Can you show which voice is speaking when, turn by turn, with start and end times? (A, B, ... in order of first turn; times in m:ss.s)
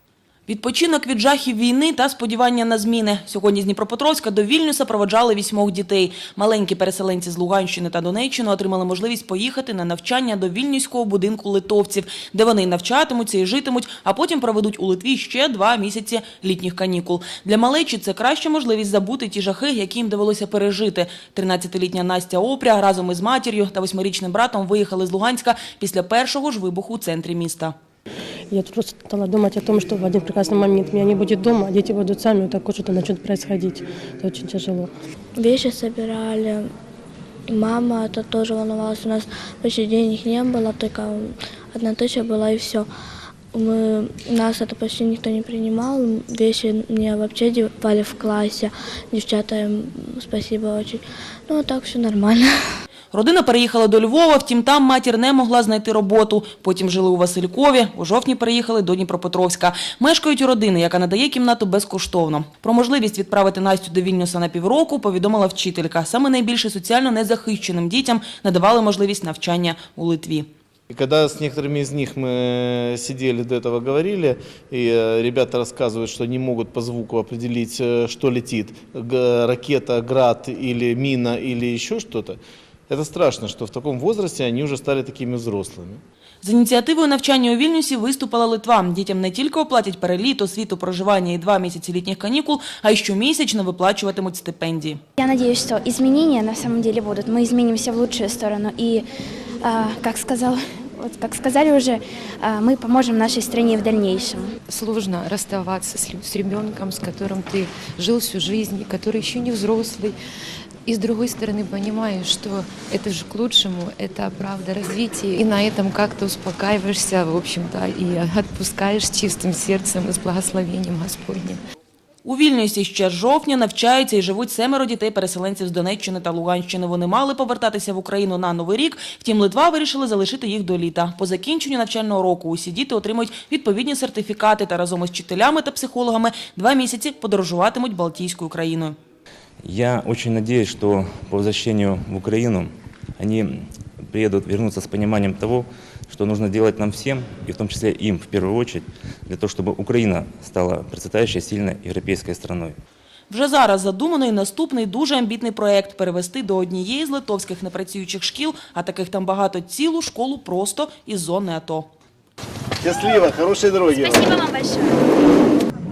0:00.5-0:27.7 A
0:28.5-0:34.9 B
0:35.4-0:36.7 C
0:37.5-0:42.9 C
0:43.5-0:52.5 C
0:53.1-1:10.5 A
1:10.9-1:26.0 D
1:26.4-1:35.0 A
1:35.2-1:39.1 E
1:39.6-1:44.5 E
1:44.7-1:50.2 F
1:50.8-2:01.6 F
2:02.2-2:18.9 A
2:19.6-2:32.8 G
2:33.3-2:41.9 A
2:42.8-2:44.4 D
2:44.0-2:45.0 E